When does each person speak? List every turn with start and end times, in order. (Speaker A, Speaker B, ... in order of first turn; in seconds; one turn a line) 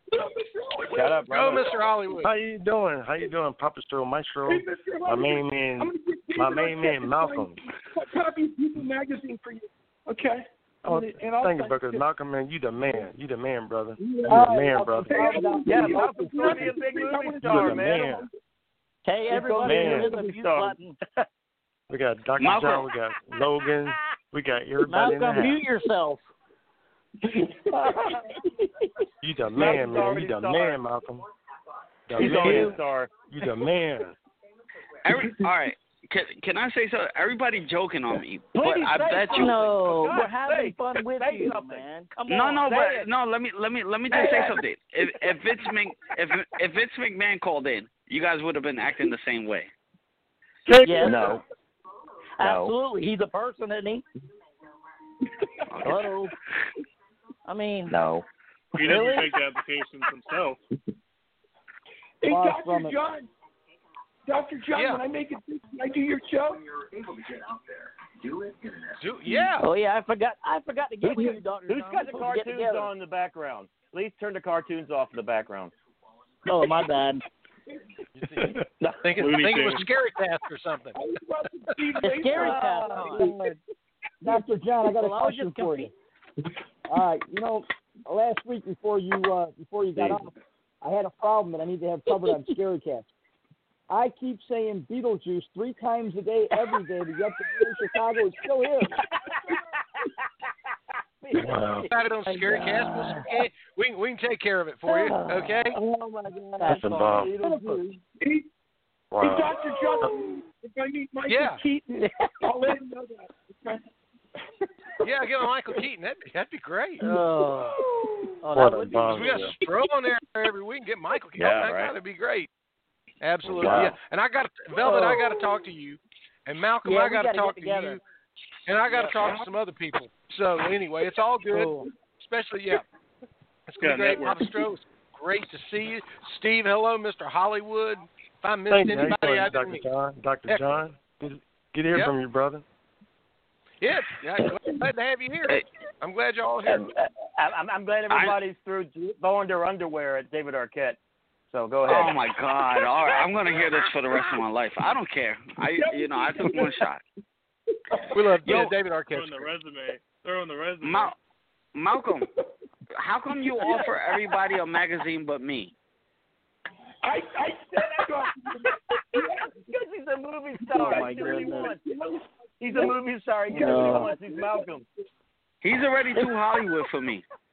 Speaker A: 0.1-2.2
Speaker B: 0.9-1.7
Speaker C: 1.3-2.3
Speaker D: 2.2-7.6
Speaker A: 4.4-12.0
Speaker D: 10.8-15.5
Speaker A: 14.0-14.5
Speaker E: 14.3-16.4
Speaker A: 15.1-18.3
Speaker B: 15.7-18.2
Speaker F: 19.0-20.9
Speaker A: 19.3-20.3
Speaker B: 19.3-21.2
Speaker D: 19.4-20.1
Speaker D: 21.9-25.6
Speaker G: 22.4-22.9
Speaker F: 24.8-26.3
Speaker D: 29.2-31.2
Speaker B: 29.5-30.8
Speaker D: 32.1-32.8
Speaker B: 32.1-33.1
Speaker F: 32.4-32.7
Speaker D: 33.3-34.1
Speaker G: 35.0-39.6
Speaker A: 35.2-35.5
Speaker B: 38.5-41.9
Speaker F: 39.2-42.9
Speaker G: 42.3-49.7
Speaker B: 42.6-43.0
Speaker B: 44.1-44.6
Speaker B: 50.7-51.4
Speaker F: 50.8-51.4
Speaker F: 52.4-54.0
Speaker B: 52.4-52.7
Speaker G: 55.7-56.0
Speaker F: 55.8-56.3
Speaker F: 57.5-57.9
Speaker B: 57.9-58.2
Speaker H: 58.8-60.6
Speaker B: 58.9-59.2
Speaker F: 58.9-59.2
Speaker A: 62.2-63.3
Speaker E: 62.3-63.0
Speaker A: 64.3-66.6
Speaker C: 64.7-65.0
Speaker C: 69.0-69.6
Speaker F: 69.6-72.9
Speaker B: 71.0-75.7
Speaker F: 76.5-77.2
Speaker C: 78.2-81.0
Speaker H: 79.2-79.9
Speaker A: 80.9-83.6
Speaker F: 82.0-83.4
Speaker E: 83.0-83.4
Speaker E: 84.2-85.9
Speaker F: 84.8-85.9
Speaker E: 86.9-93.1
Speaker B: 90.0-90.2
Speaker E: 93.9-99.0
Speaker B: 99.2-99.5
Speaker F: 101.3-103.3
Speaker D: 101.4-101.9
Speaker C: 101.9-105.8
Speaker F: 104.9-105.5
Speaker B: 105.7-107.9
Speaker F: 106.6-107.1
Speaker D: 106.7-107.3
Speaker A: 107.5-108.5
Speaker D: 109.1-110.2
Speaker A: 109.2-113.8
Speaker C: 111.3-111.6
Speaker F: 112.0-112.3
Speaker A: 115.0-115.8
Speaker C: 115.0-117.1
Speaker F: 117.0-119.4
Speaker A: 117.7-118.3
Speaker D: 118.5-119.6
Speaker C: 119.1-122.5
Speaker B: 121.4-121.9
Speaker C: 123.2-128.0
Speaker D: 123.5-123.9
Speaker F: 124.8-125.2
Speaker F: 126.8-128.0
Speaker C: 128.7-132.8
Speaker F: 128.9-129.3
Speaker F: 131.5-131.9
Speaker C: 133.7-139.8
Speaker H: 133.8-134.5
Speaker D: 138.7-142.6
Speaker C: 140.5-140.8
Speaker C: 143.8-146.9
Speaker B: 146.6-151.0
Speaker G: 148.1-148.4
Speaker B: 151.5-152.2
Speaker G: 151.9-157.0
Speaker A: 155.6-156.8
Speaker A: 157.9-158.2
Speaker C: 158.1-159.5
Speaker G: 158.4-158.7
Speaker H: 158.5-161.1
Speaker G: 160.8-161.1
Speaker G: 161.7-162.3
Speaker G: 163.0-165.7
Speaker A: 163.3-164.4
Speaker A: 167.0-169.6
Speaker B: 169.7-171.8
Speaker A: 170.7-172.9
Speaker F: 170.8-171.8
Speaker B: 172.6-174.8
Speaker A: 173.5-174.8
Speaker F: 173.6-174.1
Speaker G: 175.6-177.2